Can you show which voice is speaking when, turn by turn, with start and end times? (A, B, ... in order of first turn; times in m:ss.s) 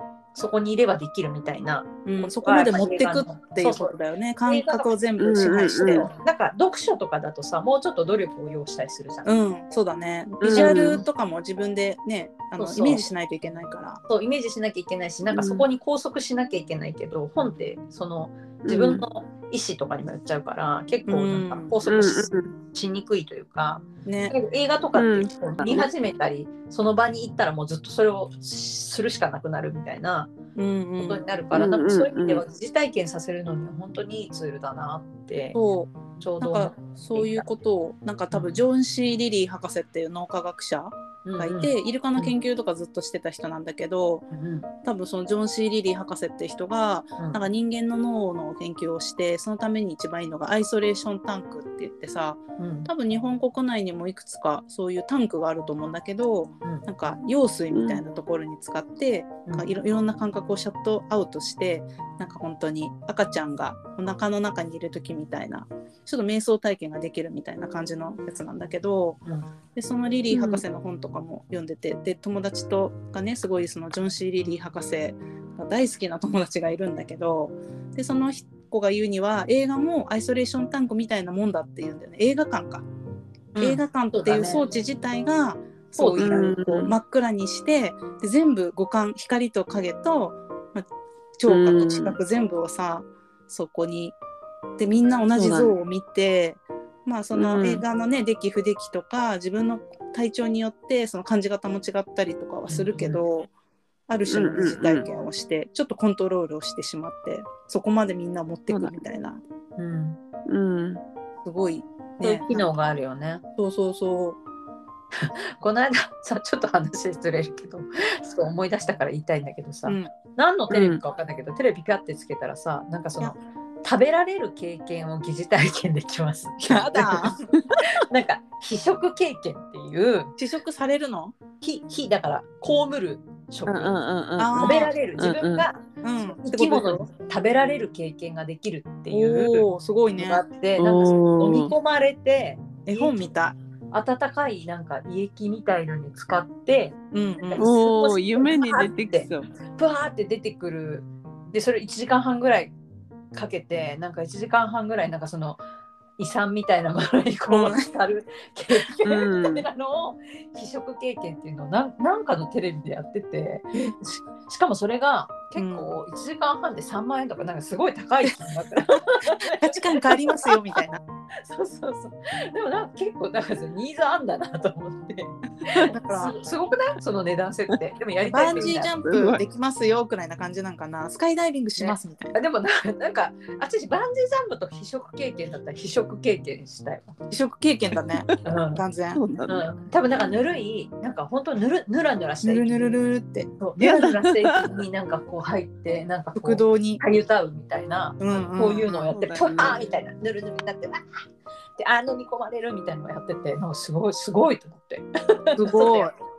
0:00.4-0:03.9 A
0:02.0-0:06.1 B
0:04.5-0:04.9 A
0:05.2-0:06.1 C
0:05.9-0:09.3 A
0:09.3-0:14.0 B
0:10.4-0:11.0 A
0:10.4-0:11.0 C
0:12.6-0:13.1 A
0:14.1-0:30.3 A
0:15.3-0:15.7 C
0:18.7-0:19.0 C
0:21.1-0:21.8 B
0:21.9-0:22.5 C
0:24.1-0:24.3 B
0:25.0-0:25.9 C
0:30.6-0:31.2 B
0:31.0-0:35.6 A
0:31.5-0:32.4 C
0:35.5-0:44.3 B
0:36.2-0:37.5 A
0:38.3-0:38.6 A
0:41.2-0:42.4 A
0:44.3-0:44.7 A
0:44.8-1:09.2 B
0:52.6-0:52.9 A
0:57.7-0:58.0 C
1:09.8-1:22.9 B
1:10.3-1:10.6 C
1:23.5-1:24.6 A
1:23.6-1:30.9 B
1:26.0-1:26.6 A
1:26.2-1:26.9 C
1:31.4-1:34.2 B
1:31.5-1:32.2 C
1:34.8-1:43.5 B
1:35.4-1:35.7 C
1:37.3-1:37.8 C
1:42.7-1:43.2 A
1:44.1-1:49.4 B
1:44.3-1:45.1 C
1:48.7-1:49.0 C
1:49.8-1:50.2 A
1:50.5-1:51.0 C
1:51.4-1:52.7 B
1:52.2-1:53.4 A
1:53.6-1:54.4 B
1:55.2-2:10.3 A
2:00.7-2:01.0 C
2:06.6-2:07.5 B
2:10.4-2:11.4 B
2:11.6-2:14.0 A
2:13.7-2:15.7 C
2:14.4-2:14.9 B
2:14.6-2:15.8 A
2:16.0-2:17.1 B
2:16.4-2:23.2 A
2:19.1-2:20.4 B
2:20.8-2:21.8 C
2:22.9-2:23.6 B
2:23.9-2:32.7 A
2:27.1-2:27.7 B
2:27.6-2:29.5 C
2:33.3-2:35.6 A
2:36.2-2:50.2 A
2:37.5-2:37.8 B
2:39.0-2:39.7 C
2:45.6-2:45.9 B
2:49.5-2:51.0 B
2:51.4-2:58.9 A
2:55.9-2:56.4 B
2:58.3-3:02.4 B
2:59.0-2:59.4 C
3:01.8-3:07.2 A
3:07.3-3:09.2 B
3:08.4-3:08.8 A
3:09.2-3:09.6 C
3:09.5-3:13.0 A
3:12.4-3:13.6 B
3:13.6-3:21.0 A
3:13.8-3:14.5 C
3:16.4-3:17.0 B
3:18.2-3:19.1 B
3:19.1-3:19.8 C
3:21.8-3:26.2 A
3:25.6-3:26.1 B